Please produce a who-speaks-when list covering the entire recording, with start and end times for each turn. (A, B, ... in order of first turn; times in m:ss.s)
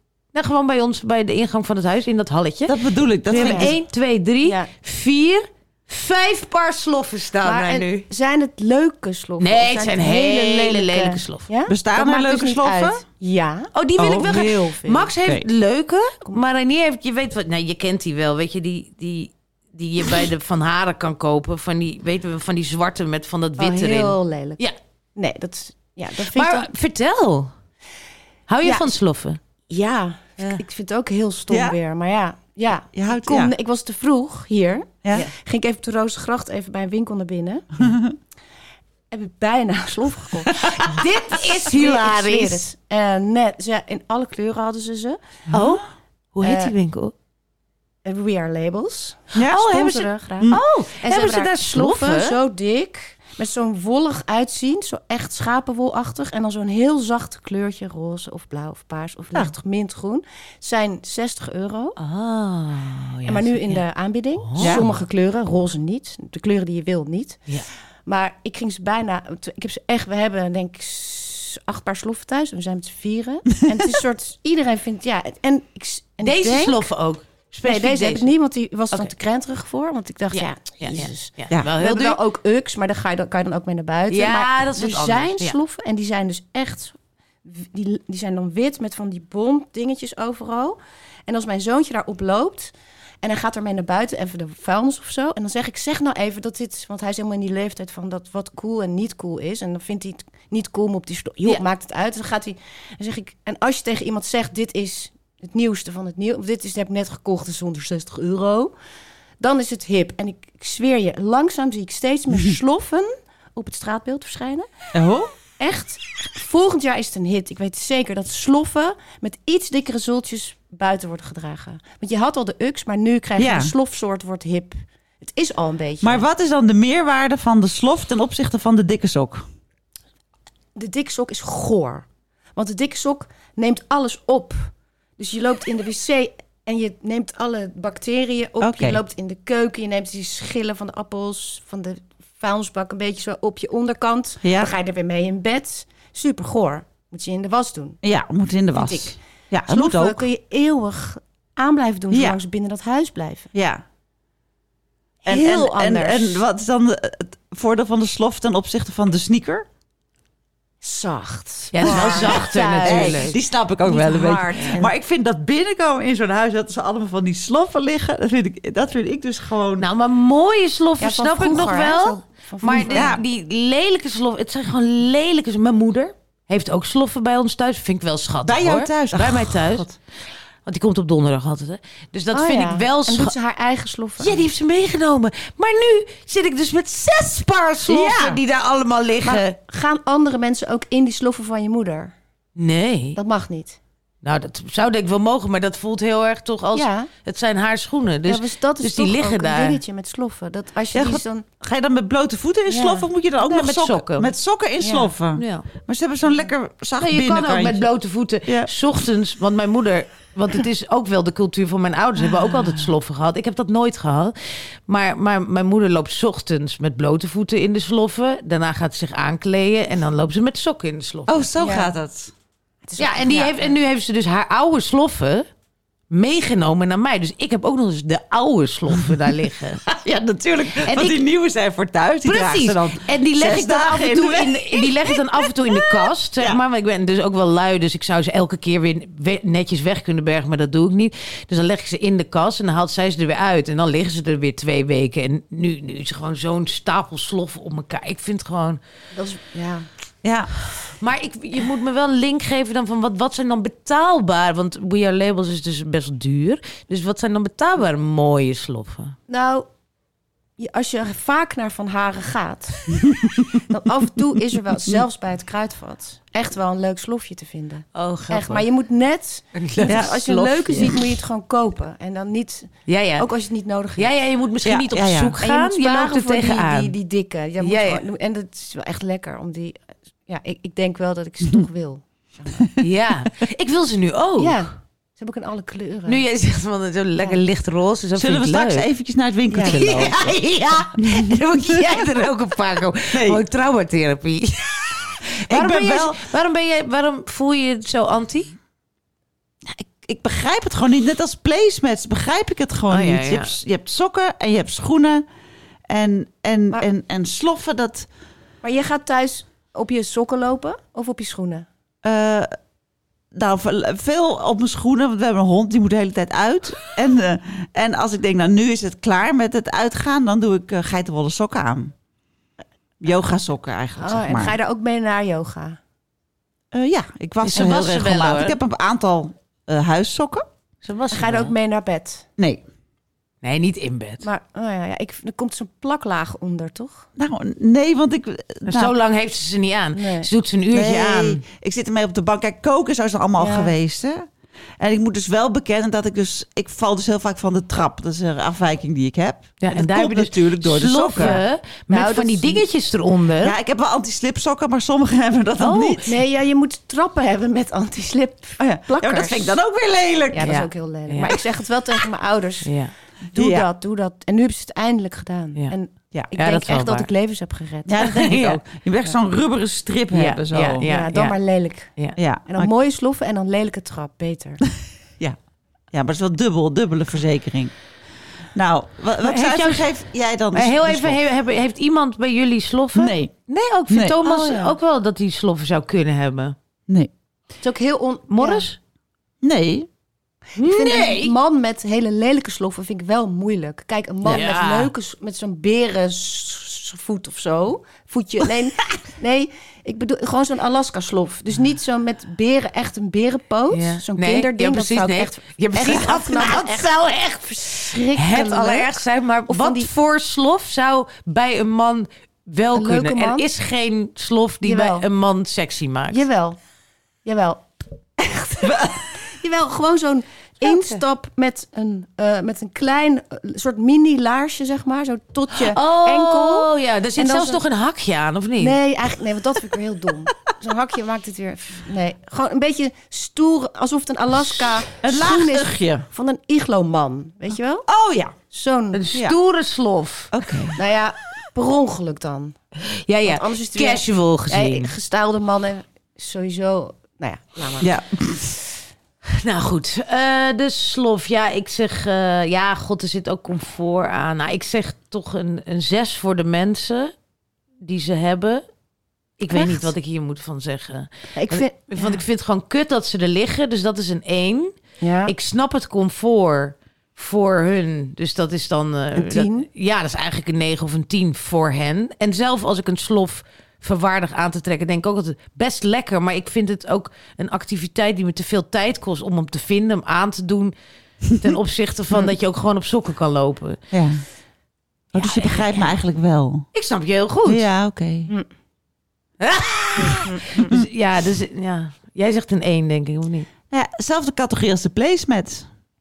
0:00.3-0:02.8 A
0:02.7-0:03.7 B
0:03.3-0:08.1 A
0:03.3-0:03.8 C
0:07.4-0:13.7 C
0:09.4-0:11.5 A
0:11.7-0:13.0 B
0:13.7-0:24.8 A
0:14.0-0:14.7 B
0:14.2-0:15.1 C
0:23.6-0:24.6 C
0:25.2-0:26.7 C
0:26.3-0:27.5 A
0:28.5-0:29.4 A
0:28.6-0:28.9 C
0:29.7-0:37.9 C
0:31.5-0:31.8 B
0:32.9-0:33.5 B
0:37.8-0:38.1 B
0:39.1-0:45.2 C
0:40.6-0:42.6 A
0:45.5-0:45.8 B
0:45.5-0:47.1 A
0:46.4-0:46.7 C
0:48.0-1:02.0 C
0:49.3-0:50.6 B
0:49.5-0:52.4 A
1:02.0-1:03.8 A
1:03.2-1:07.4 C
1:04.4-1:04.9 A
1:04.6-1:04.9 B
1:08.0-1:16.8 C
1:16.2-1:18.3 A
1:17.6-1:48.7 C
1:20.3-1:22.2 A
1:24.1-1:25.6 A
1:49.4-1:54.7 C
1:54.9-1:55.3 B
1:55.6-2:06.2 C
2:03.4-2:03.7 B
2:06.0-2:09.4 B
2:10.8-2:28.0 C
2:18.6-2:19.0 B
2:24.4-2:24.7 B
2:28.0-2:30.2 B
2:28.7-2:29.2 C
2:29.7-2:33.5 C
2:32.1-2:32.4 B
2:33.5-2:33.8 B
2:35.2-2:39.6 B
2:35.3-2:36.4 C
2:40.8-2:44.9 C
2:41.7-2:43.4 A
2:41.8-2:49.8 B
2:49.8-2:59.9 A
2:51.0-2:53.2 C
2:52.8-2:53.2 B
2:58.4-2:59.9 B
3:00.6-3:03.3 A
3:02.3-3:04.4 C
3:04.2-3:09.5 A
3:07.9-3:08.4 B
3:09.2-3:12.1 C
3:12.6-3:13.2 A
3:13.2-3:13.8 C
3:14.2-3:19.8 A
3:16.7-3:17.1 C
3:18.3-3:21.4 C
3:20.9-3:27.9 B
3:22.7-3:23.1 C
3:23.4-3:24.3 A
3:24.8-3:25.1 C
3:25.3-3:25.7 A
3:27.0-3:41.4 A
3:41.3-3:42.3 B
3:41.6-3:41.9 C
3:42.8-3:43.7 C
3:43.0-3:45.5 A
3:46.1-3:49.8 A
3:49.9-3:56.6 B
3:50.8-3:51.2 A
3:52.2-4:08.8 A
4:09.1-4:09.9 C
4:10.2-4:10.5 B
4:10.9-4:19.2 A
4:19.3-4:19.7 C
4:20.6-4:23.2 C
4:23.0-4:23.4 B
4:23.7-4:34.1 C
4:27.9-4:28.6 A
4:29.5-4:31.1 A
4:29.9-4:30.2 B
4:32.8-4:33.3 A
4:34.0-4:36.9 A
4:34.6-4:35.4 B
4:35.4-4:42.7 C
4:37.6-4:38.0 A
4:42.8-4:44.6 A
4:44.4-4:46.2 C
4:46.0-4:48.9 A
4:48.2-4:51.9 B
4:49.5-4:50.1 C
4:49.6-4:58.5 A
4:53.1-4:53.4 B
4:55.5-4:56.2 B
4:59.7-5:05.2 B
5:02.9-5:03.5 A
5:05.9-5:08.1 B
5:08.6-5:11.6 C
5:12.0-5:12.5 B
5:13.3-5:21.9 B
5:23.0-5:24.6 B
5:24.0-5:25.8 C
5:26.7-5:30.4 B
5:27.4-5:28.6 A
5:30.8-5:31.5 A
5:31.1-5:32.2 C
5:33.4-5:34.3 A
5:34.2-5:37.0 C
5:37.2-5:38.9 B
5:38.6-5:41.4 A
5:39.9-5:40.3 C
5:40.7-5:44.3 B
5:43.4-5:43.7 C
5:44.8-5:51.4 B
5:49.6-5:53.5 A
5:51.9-5:52.6 C
5:53.4-5:56.1 B
5:55.6-5:56.0 A
5:56.0-5:59.6 C
5:58.6-6:00.6 B
6:00.3-6:02.7 C
6:00.4-6:01.3 A
6:02.6-6:02.9 A
6:03.3-6:08.1 C
6:03.3-6:03.7 B
6:06.3-6:07.1 A
6:07.8-6:10.8 B
6:08.0-6:08.6 A
6:10.1-6:11.4 A
6:10.8-6:11.9 C
6:12.2-6:12.7 B
6:12.5-6:14.6 C
6:15.9-6:17.7 B
6:18.5-6:21.2 B
6:19.2-6:19.9 A
6:20.5-6:26.6 A
6:22.9-6:23.3 B
6:23.9-6:24.3 B
6:24.2-6:24.7 C
6:27.6-6:28.6 C
6:28.3-6:28.8 A
6:29.4-6:29.9 B
6:30.6-6:31.3 A
6:30.6-6:49.0 C
6:34.2-6:34.9 A
6:43.7-6:56.2 A
6:49.5-6:49.9 C
6:52.7-6:53.4 C
6:54.6-6:55.0 C
6:56.1-6:56.6 C
6:57.2-7:07.6 C
6:58.6-6:59.0 B
7:00.6-7:01.0 A
7:05.5-7:08.8 A
7:08.6-7:17.8 C
7:15.0-7:16.0 B
7:17.9-7:18.4 B
7:18.4-7:19.0 C
7:18.9-7:20.3 A
7:20.3-7:20.8 B
7:20.8-7:22.6 C
7:22.8-7:24.9 A
7:23.2-7:27.9 C
7:27.8-7:28.5 B
7:29.3-7:37.1 A
7:37.8-7:38.6 A
7:39.4-8:00.7 A
7:41.3-7:42.2 C
7:45.0-7:45.3 C
7:49.2-7:49.7 C
8:01.3-8:03.8 A
8:03.9-8:04.2 B
8:05.1-8:06.7 B
8:05.4-8:05.8 C
8:06.7-8:07.6 A
8:07.4-8:08.3 B
8:09.4-8:13.5 A
8:10.0-8:10.7 C
8:13.7-8:15.7 B